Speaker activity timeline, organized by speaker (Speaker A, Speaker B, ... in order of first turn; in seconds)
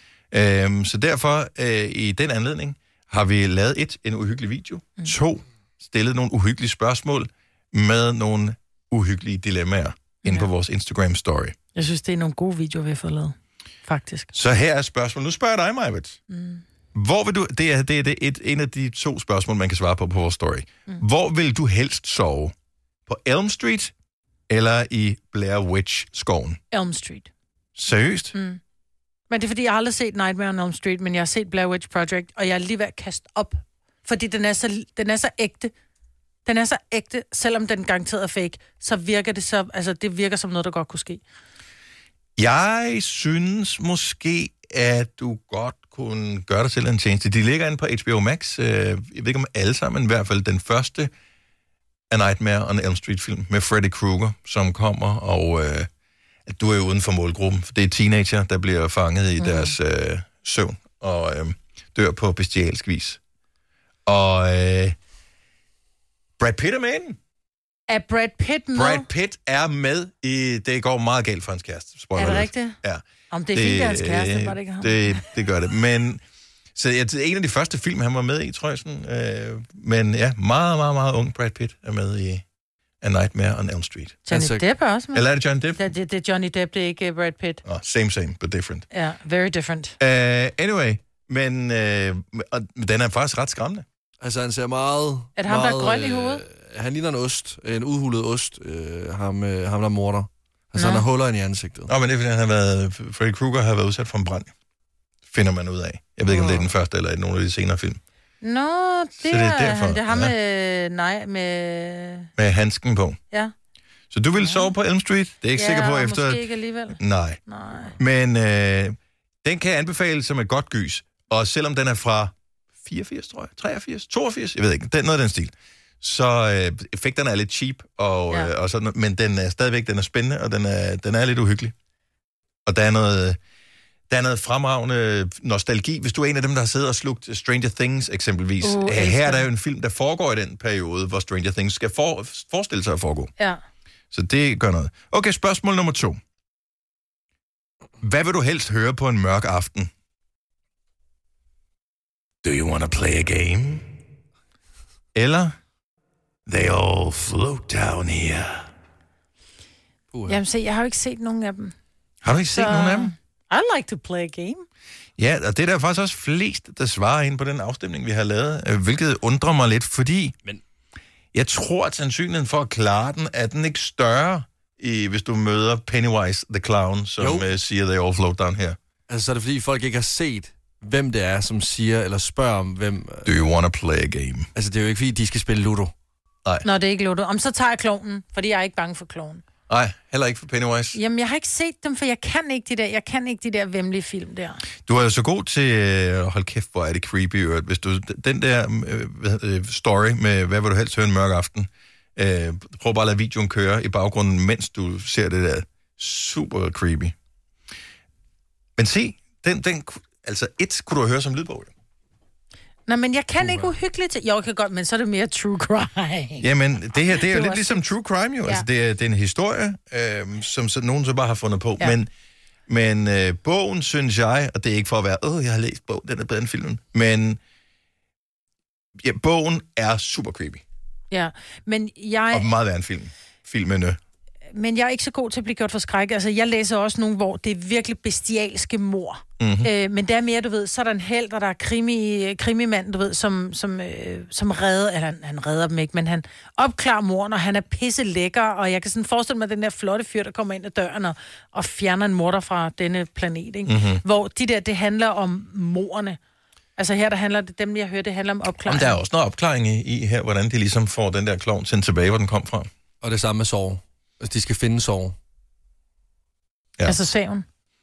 Speaker A: 0.3-11.6, 14.3-16.2, 16.9-22.5, 23.1-23.9, 24.5-26.6, 27.8-28.4, 42.4-51.1, 52.1-55.9, 56.5-63.2, 64.1-65.0, 66.4-67.2, 68.8-76.2, 76.8-82.4, 83.0-84.3, 85.1-85.8, 87.7-88.9, 90.0-93.9, 101.9-104.5, 105.3-108.0, 109.2-110.3, 112.4-113.2, 114.1-117.4, 118.0-131.7, 132.7-133.4, 134.1-143.3, 144.1-146.2, 148.0-149.9, 152.4-153.9, 155.2-155.6, 156.5-158.7, 162.2-163.1, 165.2-170.4, 171.3-178.8, 183.2-184.5, 189.7-191.0, 194.9-207.2, 208.8-211.7, 216.4-222.1, 222.7-227.4, 229.0-230.6, 232.3-234.0, 239.4-239.7, 253.7-254.0, 258.6-262.7, 266.8-267.1
Speaker B: 10.2-10.5, 11.8-14.3, 16.3-16.6, 26.7-27.3, 28.3-28.6, 29.3-35.7, 36.5-41.2, 59.4-59.8, 67.9-69.1, 72.2-72.8, 73.3-75.2, 84.3-87.6, 88.9-90.0, 95.4-96.4, 100.8-101.0, 108.4-112.3, 114.4-114.7, 115.6-118.0, 138.6-139.5, 160.3-161.8, 162.5-164.7, 186.6-189.4, 190.9-194.6, 212.9-217.9, 231.1-232.5, 234.5-256.2, 256.8-259.0, 266.9-267.5
Speaker C: 84.3-84.6, 94.2-101.9, 160.1-160.4, 177.2-177.5, 179.1-183.3, 184.6-185.9, 263.0-265.1